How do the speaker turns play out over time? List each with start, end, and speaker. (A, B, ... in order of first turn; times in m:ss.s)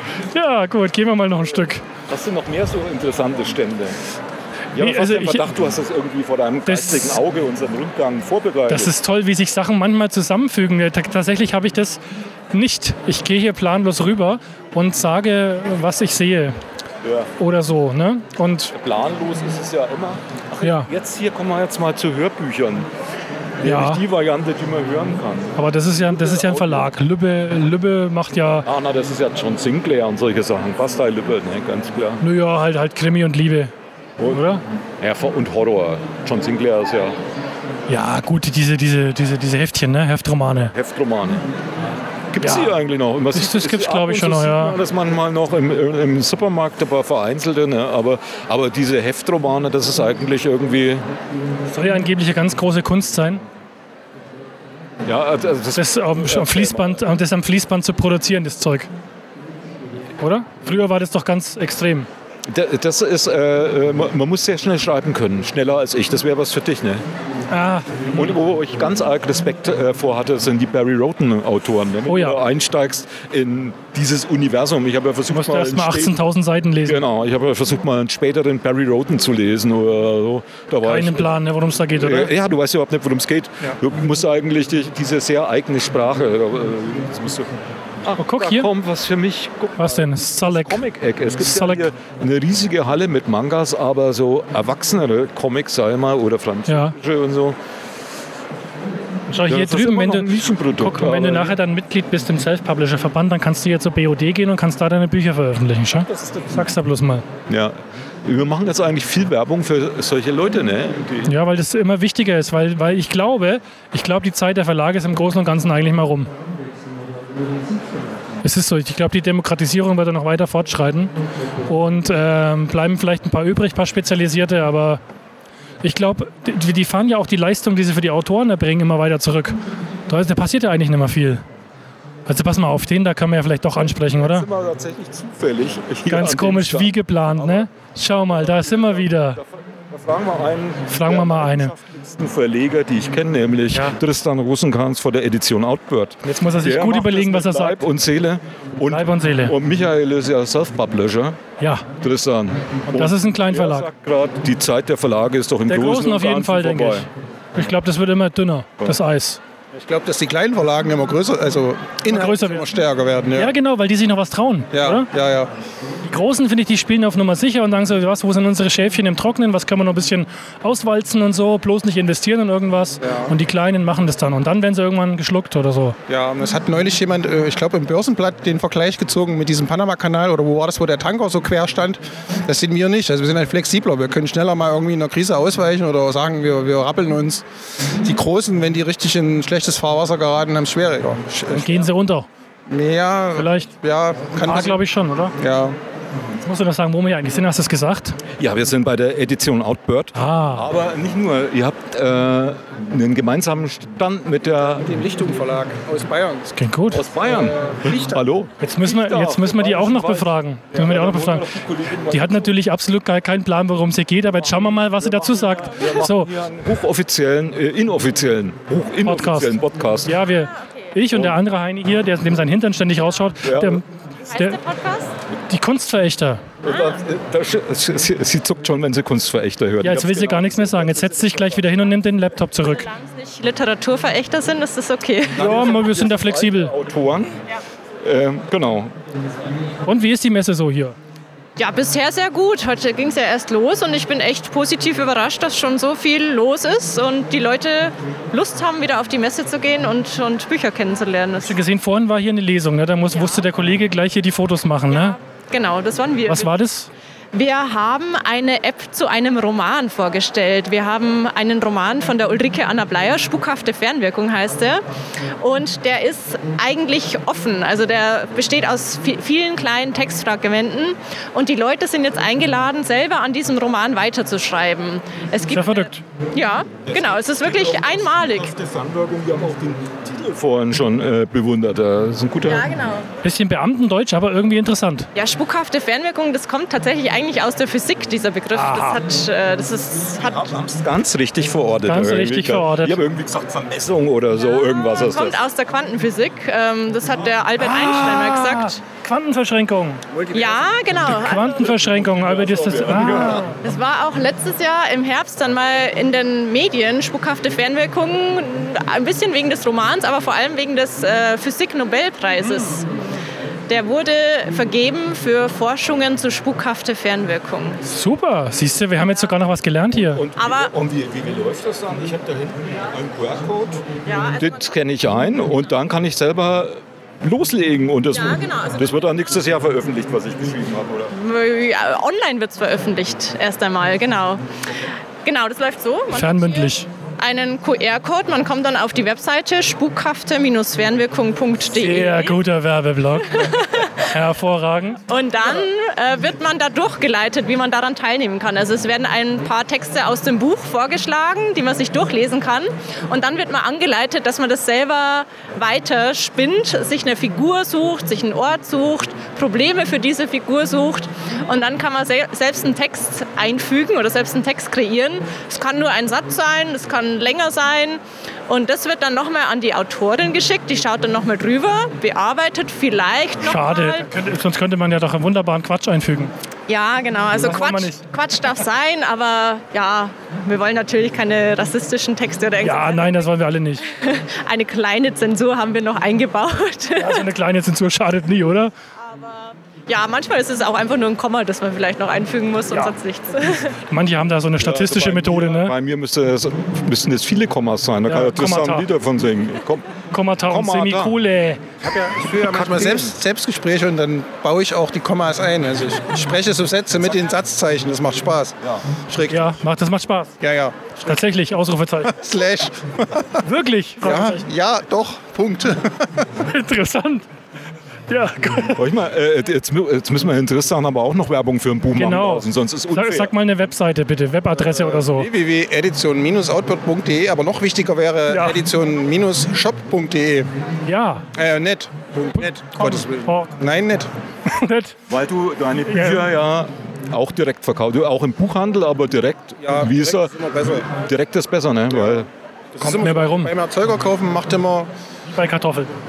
0:00.3-0:01.8 A
0:02.1-0:04.0 B
0:04.7-0:08.9 B
0:04.8-0:05.5 A
0:06.6-0:07.2 A
0:08.7-0:12.0 A
0:12.5-0:16.6 A
0:17.0-0:17.3 B
0:17.4-0:18.7 A
0:18.7-0:22.9 B
0:20.6-0:20.9 A
0:23.6-0:26.9 B
0:23.6-0:24.0 A
0:25.6-0:28.7 A
0:28.6-0:32.2 B
0:32.2-0:33.7 A
0:34.3-0:34.6 A
0:35.0-0:37.2 B
0:37.9-0:40.7 A
0:40.7-0:41.4 B
0:42.3-0:51.0 B
0:42.4-0:42.8 A
0:43.3-0:44.8 A
0:51.7-0:53.4 A
0:55.0-0:57.1 B
0:55.7-0:58.9 A
1:00.2-1:02.1 A
1:02.5-1:07.0 B
1:07.5-1:07.9 A
1:08.1-1:16.2 B
1:12.1-1:12.4 A
1:15.3-1:17.0 A
1:16.8-1:21.3 B
1:20.8-1:22.3 A
1:22.0-1:37.6 B
1:28.2-1:28.7 A
1:29.8-1:30.8 A
1:31.4-1:31.9 A
1:36.7-1:37.0 A
1:39.3-1:47.2 A
1:39.5-1:41.6 B
1:46.1-1:46.4 C
1:47.5-1:51.3 B
1:51.2-1:56.3 A
1:58.4-2:01.1 A
2:01.7-2:05.0 A
2:05.8-2:09.6 A
2:10.1-2:11.4 A
2:12.3-2:14.5 A
2:13.8-2:31.4 B
2:16.1-2:19.4 A
2:20.9-2:21.7 A
2:23.7-2:24.0 A
2:26.2-2:27.8 A
2:28.9-2:29.6 A
2:31.6-2:31.9 A
2:32.0-2:37.1 B
2:32.9-2:33.9 A
2:35.7-2:39.4 A
2:39.7-2:43.5 C
2:42.1-2:42.6 A
2:43.3-2:45.1 A
2:44.7-2:45.5 C
2:46.0-2:56.0 A
2:53.0-2:53.3 C
2:56.1-3:07.4 C
3:08.0-3:11.8 C
3:11.5-3:12.3 A
3:12.7-3:14.8 C
3:13.4-3:13.7 A
3:14.4-3:15.3 A
3:15.4-3:15.8 C
3:16.4-3:18.2 A
3:18.4-3:24.8 B
3:20.1-3:20.7 A
3:24.6-3:26.5 C
3:26.5-3:27.0 A
3:26.9-3:32.5 B
3:27.0-3:28.2 C
3:28.6-3:31.5 A
3:32.1-3:36.3 A
3:34.4-3:40.2 B
3:39.0-3:44.6 A
3:41.1-3:41.4 B
3:43.4-3:43.8 B
3:44.3-3:45.1 D
3:45.5-3:46.4 A
3:46.6-3:51.8 B
3:49.8-3:52.9 A
3:52.6-3:55.4 D
3:55.3-3:57.4 B
3:55.4-3:56.7 A
3:58.0-3:58.9 B
3:59.8-4:01.0 A
4:01.6-4:11.6 D
4:11.4-4:15.2 A
4:13.1-4:13.4 D
4:14.9-4:16.5 D
4:16.3-4:16.9 A
4:17.3-4:24.8 D
4:25.4-4:38.5 D
4:35.5-4:36.0 A
4:36.8-4:42.7 B
4:42.4-4:43.1 D
4:43.2-4:45.1 A
4:45.1-4:50.5 D
4:48.5-4:49.0 A
4:50.2-4:55.4 B
4:51.8-4:53.0 A
4:54.4-4:58.8 D
4:57.6-5:00.0 A
5:00.1-5:00.6 C
5:00.3-5:01.7 D
5:01.0-5:03.6 A
5:01.6-5:03.5 B
5:03.5-5:12.9 D
5:13.7-5:17.8 D
5:17.8-5:20.2 A
5:19.9-5:23.8 B
5:20.4-5:20.7 D
5:24.0-5:24.6 D
5:24.3-5:31.1 B
5:28.2-5:28.8 D
5:31.1-5:34.4 D
5:35.2-5:42.4 D
5:36.1-5:36.9 A
5:41.7-5:45.0 A
5:43.2-5:44.0 D
5:45.1-6:14.1 D
6:13.4-6:16.3 A
6:16.7-6:23.1 D
6:17.4-6:18.0 A
6:22.6-6:23.9 A
6:23.9-6:27.2 D
6:27.0-6:28.7 A
6:29.0-6:33.8 D
6:33.9-6:35.7 A
6:34.6-6:39.9 B
6:38.0-6:38.8 A
6:40.1-6:41.6 A
6:40.5-6:41.2 B
6:41.9-6:48.6 C
6:42.1-6:43.2 B
6:49.1-6:49.5 C
6:49.3-6:50.4 A
6:50.4-6:50.9 C
6:51.0-6:52.1 A
6:52.1-6:53.4 C
6:53.4-6:54.4 A
6:54.0-6:56.3 C
6:56.4-6:57.2 A
6:58.1-6:58.8 A
6:58.7-7:03.3 B
7:01.9-7:05.3 A
7:04.6-7:10.5 C
7:08.3-7:08.6 A
7:10.8-7:11.2 A
7:11.3-7:14.1 C
7:12.8-7:13.5 A
7:14.4-7:15.0 A
7:15.1-7:20.3 B
7:15.9-7:16.3 A
7:19.6-7:20.9 C
7:20.8-7:22.3 B
7:22.7-7:24.9 C
7:22.8-7:23.5 A
7:25.3-7:25.9 A